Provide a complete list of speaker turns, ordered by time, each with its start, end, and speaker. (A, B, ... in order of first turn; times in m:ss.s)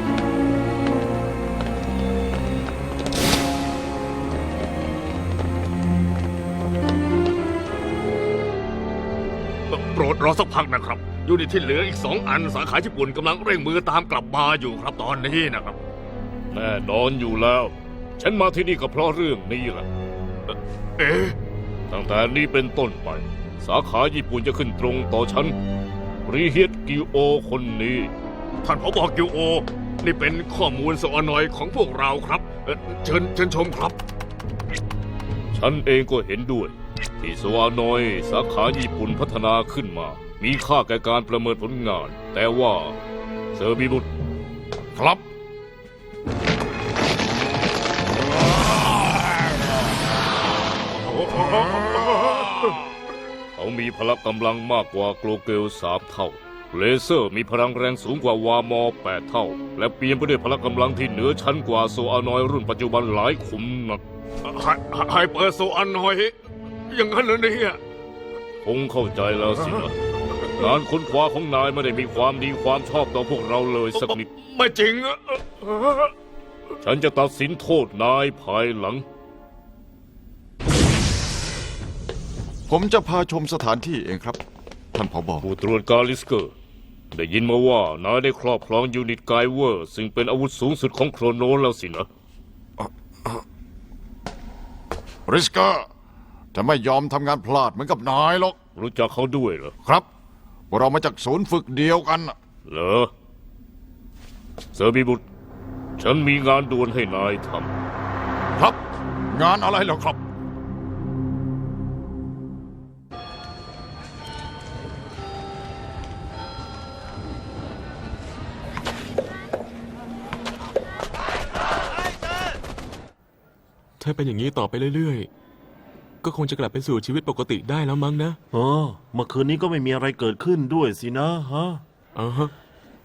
0:09.7-0:15.8 A
0:16.5-0:19.9 B
0:21.0-0:21.4 A
0:21.9-0:25.5 B
0:26.2-0:28.1 B
0:28.6-0:34.0 A
0:35.5-0:43.0 B
0:43.5-0:44.1 B
0:44.9-0:45.2 C
0:51.4-0:52.8 C
0:53.6-1:04.0 B
1:04.4-1:06.4 A
1:06.9-1:07.8 A
1:08.6-1:09.9 B
1:10.5-1:14.3 B
1:14.0-1:16.1 A
1:16.8-1:19.0 B
1:22.7-1:24.4 C
1:24.9-1:25.5 C
1:25.4-1:26.5 B
1:27.1-1:32.1 B
1:32.8-1:33.4 C
1:35.3-1:35.9 C
1:36.5-1:38.6 C
1:38.8-1:39.7 B
1:40.7-1:42.3 C
1:42.7-1:43.1 B
1:44.7-1:45.2 B
1:46.0-1:47.7 B
1:49.3-1:50.2 C
2:04.0-2:05.3 D
2:06.2-2:08.4 D
2:08.5-2:11.8 E
2:12.2-2:12.5 D